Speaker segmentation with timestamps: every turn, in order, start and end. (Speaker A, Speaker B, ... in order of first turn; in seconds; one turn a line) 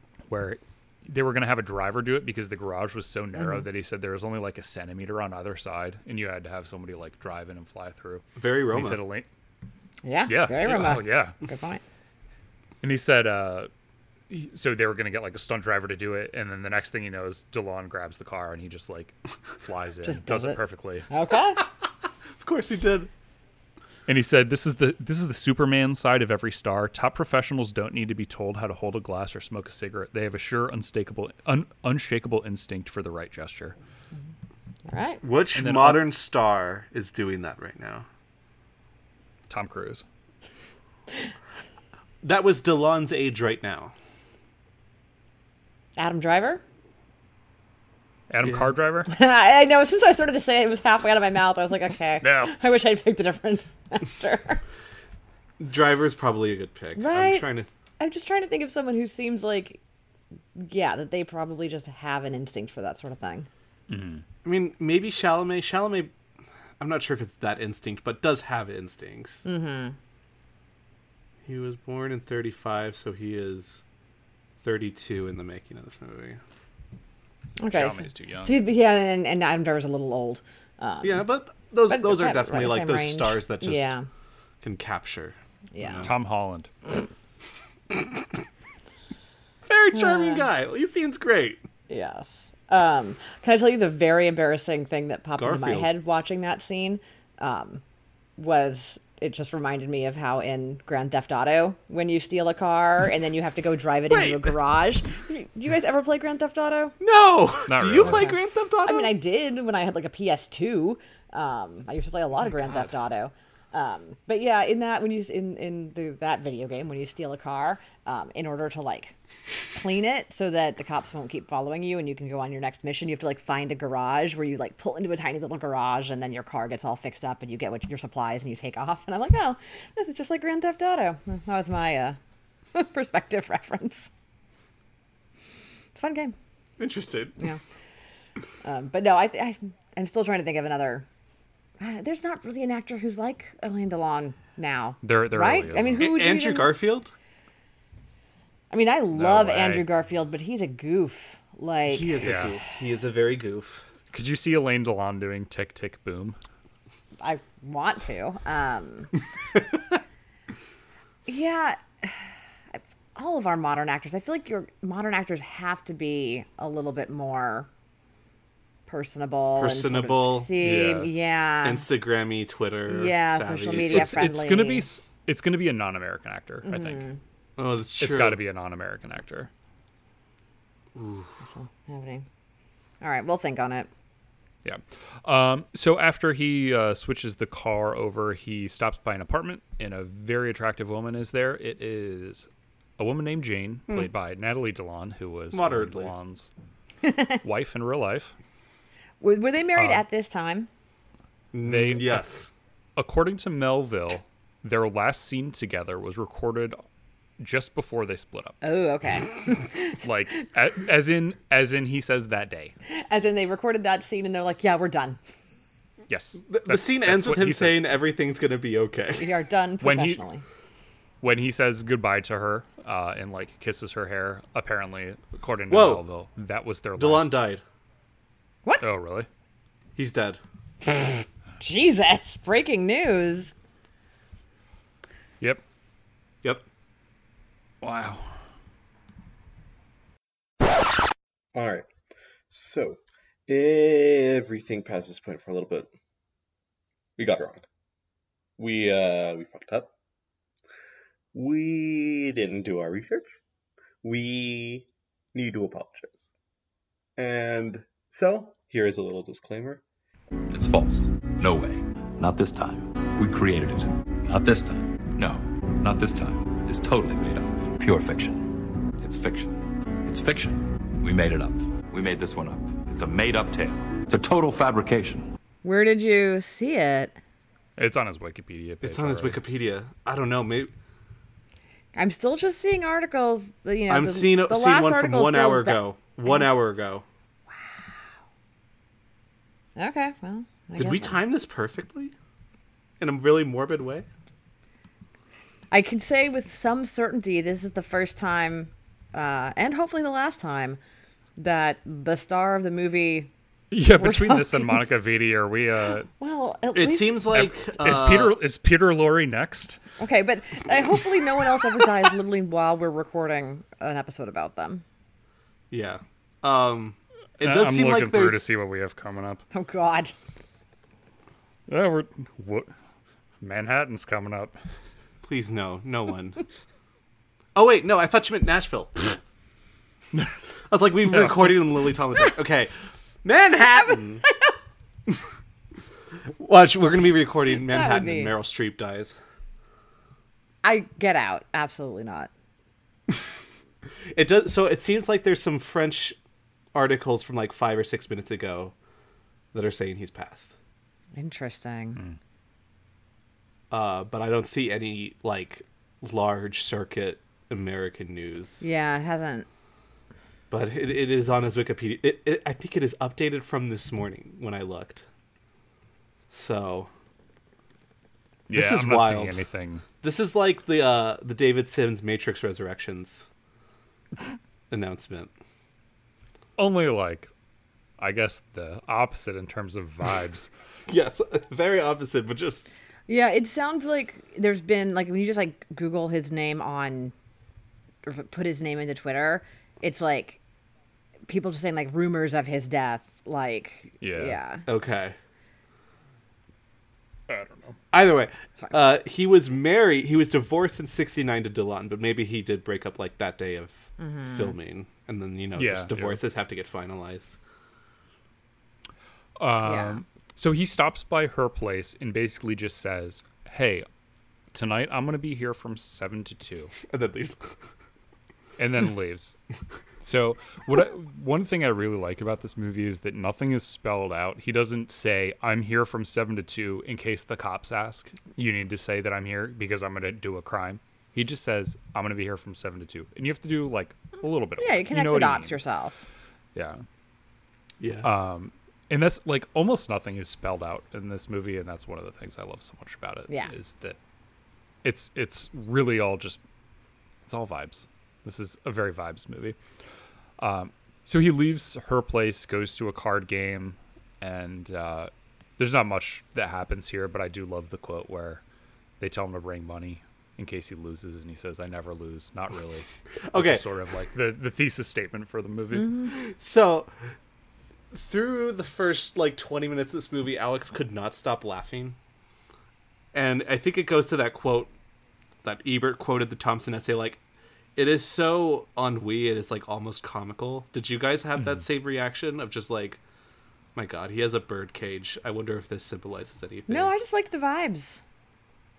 Speaker A: 0.3-9.3
Speaker B: 3.4-3.6
Speaker C: 8.4-9.0
Speaker B: 10.0-11.8
Speaker A: 10.3-11.4
Speaker A: 12.8-13.7
Speaker A: 14.3-21.1
Speaker B: 20.0-20.6
Speaker B: 21.1-21.6
Speaker C: 22.4-23.1
Speaker A: 24.1-33.8
Speaker B: 34.9-35.2
Speaker C: 35.2-38.1
Speaker A: 35.5-36.1
Speaker A: 39.5-40.0
Speaker C: 42.2-43.9
Speaker B: 46.0-46.6
Speaker A: 48.3-49.1
Speaker C: 48.4-48.7
Speaker B: 49.1-54.6
Speaker A: 52.2-52.6
Speaker C: 55.6-57.7
Speaker B: 57.0-57.5
Speaker B: 58.0-59.8
Speaker B: 60.5-63.5
Speaker A: 63.9-64.2
Speaker C: 64.4-66.1
Speaker C: 66.8-69.5
Speaker B: 69.5-70.0
Speaker C: 71.5-73.8
Speaker C: 74.6-76.4
Speaker B: 77.6-81.2
Speaker A: 77.7-78.6
Speaker C: 81.0-84.0
Speaker B: 81.9-84.1
Speaker C: 84.6-86.1
Speaker B: 85.7-86.1
Speaker A: 86.0-86.7
Speaker C: 87.9-88.2
Speaker C: 89.7-91.6
Speaker B: 89.9-90.5
Speaker B: 91.9-97.8
Speaker C: 95.4-95.9
Speaker B: 98.4-107.0
Speaker C: 104.1-104.6
Speaker C: 107.0-109.1
Speaker A: 107.7-108.3
Speaker B: 108.0-119.2
Speaker B: 119.7-132.2
Speaker B: 132.8-134.1
Speaker B: 135.9-136.3
Speaker C: 136.8-137.4
Speaker B: 138.6-141.1
Speaker B: 141.8-146.8
Speaker A: 145.0-146.1
Speaker C: 146.0-147.1
Speaker B: 148.7-152.3
Speaker A: 149.2-149.9
Speaker C: 151.9-153.8
Speaker A: 152.2-152.6
Speaker A: 154.1-156.4
Speaker B: 157.2-159.1
Speaker B: 161.3-167.7
Speaker B: 168.9-171.9
Speaker C: 169.6-170.5
Speaker A: 170.6-171.1
Speaker C: 171.6-174.3
Speaker B: 172.9-174.9
Speaker A: 173.8-177.0
Speaker B: 176.7-177.2
Speaker C: 177.6-178.4
Speaker A: 178.0-179.5
Speaker C: 180.9-181.3
Speaker B: 181.4-182.3
Speaker B: 183.0-183.9
Speaker A: 184.6-196.5
Speaker C: 195.5-196.1
Speaker B: 197.1-197.3
Speaker A: 197.4-198.3
Speaker B: 199.2-200.7
Speaker A: 199.8-200.0
Speaker C: 201.5-202.5
Speaker A: 201.6-202.3
Speaker A: 203.0-206.8
Speaker A: 207.4-208.6
Speaker B: 208.6-210.0
Speaker A: 210.0-212.7
Speaker B: 213.0-215.2
Speaker A: 216.1-218.0
Speaker C: 216.5-219.3
Speaker B: 219.2-220.4
Speaker A: 219.8-220.2
Speaker A: 221.2-227.5
Speaker C: 225.7-226.0
Speaker C: 227.0-227.6
Speaker A: 228.8-229.3
Speaker C: 230.0-230.4
Speaker B: 231.6-233.5
Speaker A: 237.8-238.3
Speaker D: 241.6-241.9
Speaker D: 242.5-245.9
Speaker D: 247.2-247.6
Speaker D: 248.6-249.9
Speaker D: 251.3-253.4
Speaker D: 254.0-256.3
Speaker D: 257.2-259.8
Speaker E: 260.5-275.3
Speaker B: 275.6-277.2
Speaker A: 277.8-279.4
Speaker C: 278.8-280.7
Speaker B: 281.9-286.7
Speaker C: 283.9-287.0
Speaker B: 289.8-291.2
Speaker C: 290.8-292.1
Speaker C: 293.0-294.1
Speaker B: 295.7-300.8
Speaker B: 301.4-303.3
Speaker A: 303.7-306.1
Speaker B: 304.0-304.8
Speaker B: 306.2-307.3
Speaker C: 306.8-308.4
Speaker A: 307.3-309.8
Speaker B: 310.0-314.8
Speaker C: 315.7-318.4
Speaker A: 317.4-319.4
Speaker B: 319.5-320.1
Speaker A: 321.7-322.7
Speaker A: 323.4-324.6
Speaker C: 325.2-326.4
Speaker C: 327.6-329.2
Speaker C: 330.7-332.7
Speaker A: 331.1-331.6
Speaker C: 333.2-334.2
Speaker C: 336.4-339.2
Speaker B: 337.5-338.4
Speaker B: 340.6-342.3
Speaker C: 344.1-346.2
Speaker C: 346.8-348.7
Speaker C: 349.5-350.6
Speaker B: 351.2-352.0
Speaker C: 353.7-358.7
Speaker B: 358.6-359.5
Speaker C: 360.5-365.1
Speaker C: 366.3-366.9
Speaker A: 368.5-369.9
Speaker C: 368.5-369.4
Speaker C: 370.0-373.3
Speaker C: 374.7-375.3
Speaker A: 376.6-377.3
Speaker A: 378.0-380.5
Speaker C: 380.9-382.7
Speaker B: 383.1-387.1
Speaker B: 388.0-390.4
Speaker B: 391.3-394.6
Speaker A: 394.0-394.4
Speaker C: 394.7-395.2
Speaker A: 397.3-397.8
Speaker C: 397.9-407.4
Speaker B: 404.0-404.5
Speaker A: 405.6-406.2
Speaker A: 409.4-413.9
Speaker B: 409.6-410.0
Speaker A: 414.5-416.8
Speaker C: 416.9-417.7
Speaker A: 418.6-419.4
Speaker A: 420.0-435.6
Speaker B: 434.6-436.0
Speaker A: 436.6-436.8
Speaker C: 437.8-438.1
Speaker A: 438.0-444.0
Speaker A: 444.8-446.4
Speaker A: 447.3-449.6
Speaker A: 450.4-458.4
Speaker A: 459.0-466.1
Speaker C: 463.3-463.6
Speaker C: 466.1-466.9
Speaker C: 467.9-472.0
Speaker C: 473.1-474.7
Speaker C: 475.4-477.2
Speaker C: 477.8-483.0
Speaker C: 483.8-486.9
Speaker B: 486.7-488.0